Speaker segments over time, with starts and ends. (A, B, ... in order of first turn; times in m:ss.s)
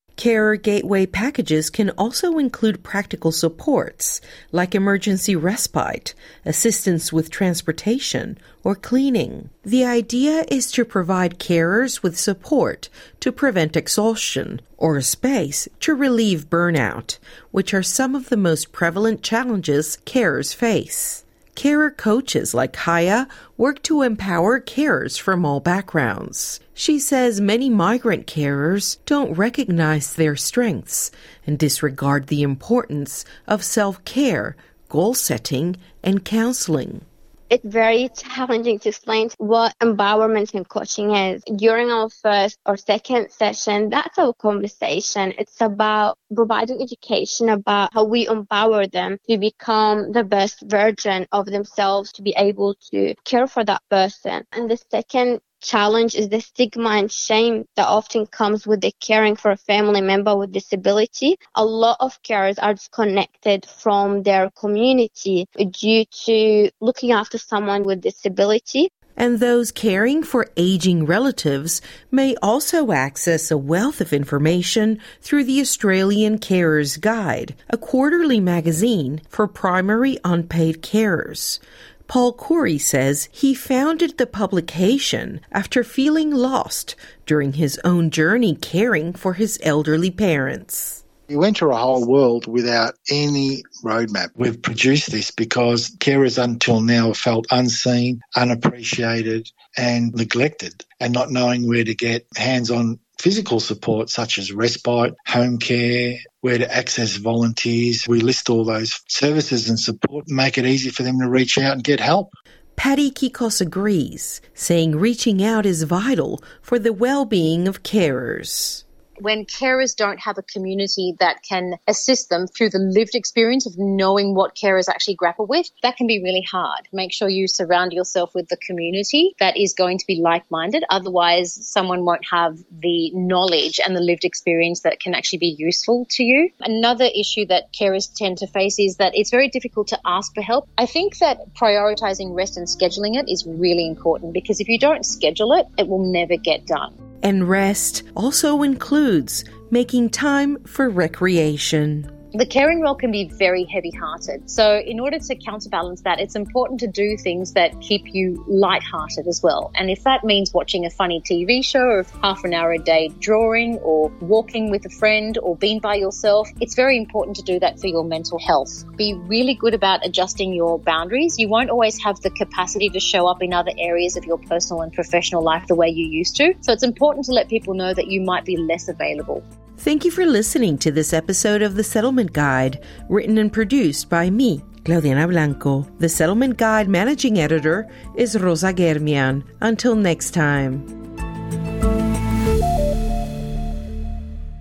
0:00.2-0:37.1 A
0:37.5-1:08.9 B
1:09.2-1:31.0 A
1:31.3-1:52.3 C
1:52.8-1:58.8 A
1:59.2-2:27.0 D
2:27.2-2:32.1 A
2:32.3-2:59.4 D
2:59.8-3:10.9 A